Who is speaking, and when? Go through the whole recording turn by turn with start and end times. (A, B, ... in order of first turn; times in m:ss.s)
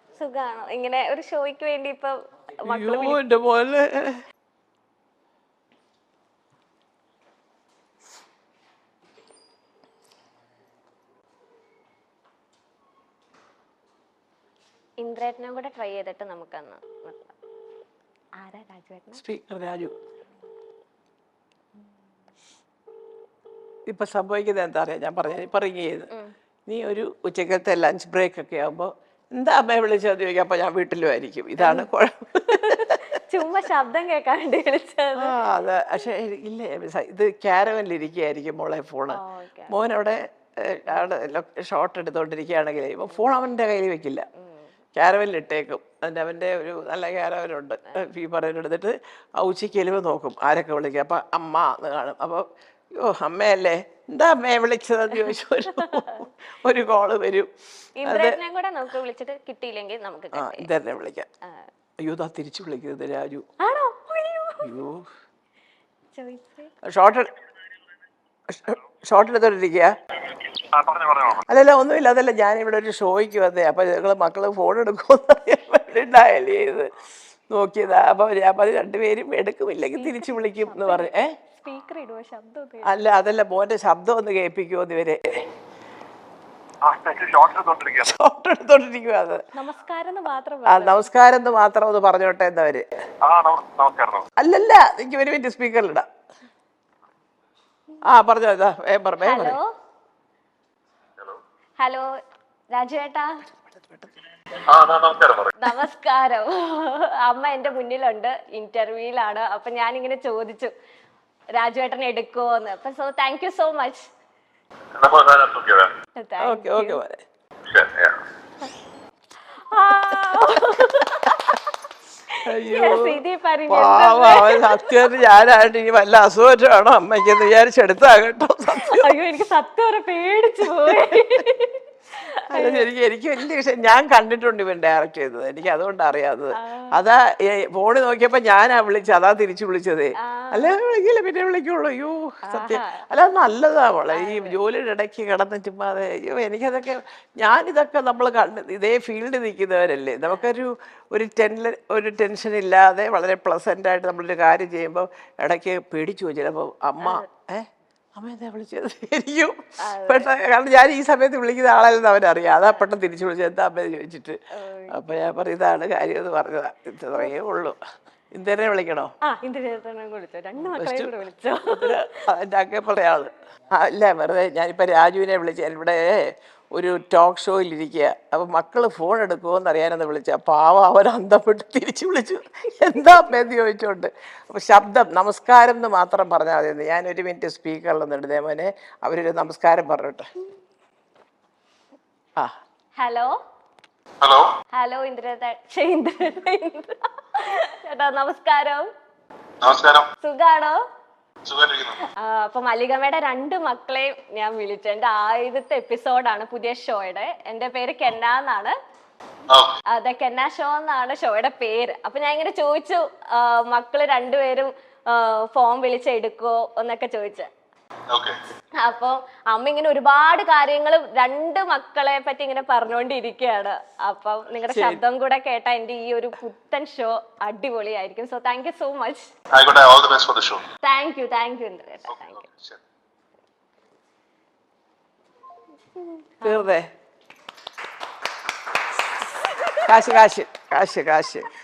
0:00.2-0:03.2 A
0:02.7-0:04.2 B
0:15.0-0:17.3 A
0:18.4-0:19.2 A
0:19.1-0:19.9 B
0:23.9-0:26.1 B
0:26.7-0:33.2 B
0:31.6-0:31.9 A
0:32.5-0:35.4 A
0:35.2-0:44.3 B
0:39.1-0:39.8 A
0:44.4-0:44.7 A
0:45.0-0:57.5 B
0:55.3-0:56.3 A
0:58.0-1:00.7 A
0:58.0-0:58.4 B
1:00.3-1:01.3 B
1:02.0-1:03.4 B
1:03.6-1:04.7 A
1:04.6-1:05.0 B
1:06.2-1:06.7 A
1:06.8-1:07.3 B
1:08.5-1:09.9 B
1:10.5-1:11.4 C
1:11.4-1:16.9 B
1:17.5-1:21.3 B
1:20.0-1:23.0 A
1:22.8-1:25.4 B
1:26.8-1:28.2 C
1:28.0-1:29.4 B
1:29.6-1:31.1 A
1:30.7-1:32.8 B
1:33.2-1:34.2 C
1:34.4-1:36.1 B
1:38.0-1:39.6 B
1:39.2-1:39.6 A
1:41.8-1:42.1 A
1:42.7-1:43.3 A
1:43.7-1:44.1 B
1:44.6-1:45.5 C
1:45.6-1:50.7 A
1:51.6-1:54.1 A
1:55.0-1:56.0 C
1:56.2-1:57.0 A
1:56.4-1:57.2 B
1:57.7-1:58.2 C
1:59.6-2:01.6 A
2:02.3-2:05.2 A
2:02.4-2:09.1 B
2:08.8-2:12.9 A
2:10.7-2:11.1 B
2:12.5-2:44.4 B
2:16.5-2:17.0 A
2:20.2-2:20.8 A
2:22.5-2:23.0 A
2:24.1-2:24.6 A
2:39.8-2:40.3 A
2:44.5-2:45.0 A
2:44.9-2:47.8 B
2:48.3-2:49.1 B
2:49.2-2:52.2 A
2:50.6-3:10.3 B
3:13.0-3:13.3 A
3:14.2-3:14.5 C
3:14.8-3:18.9 A
3:19.6-3:20.1 C
3:20.2-3:20.8 A
3:21.5-3:22.0 C
3:22.2-3:28.8 A
3:29.9-3:37.5 A
3:38.1-3:38.4 C
3:38.8-3:49.3 A
3:44.7-3:45.0 B
3:49.5-3:50.6 C
3:50.8-3:52.5 A
3:56.0-3:56.7 A
3:56.4-3:56.9 B
3:59.3-3:59.8 A
3:59.8-4:01.5 B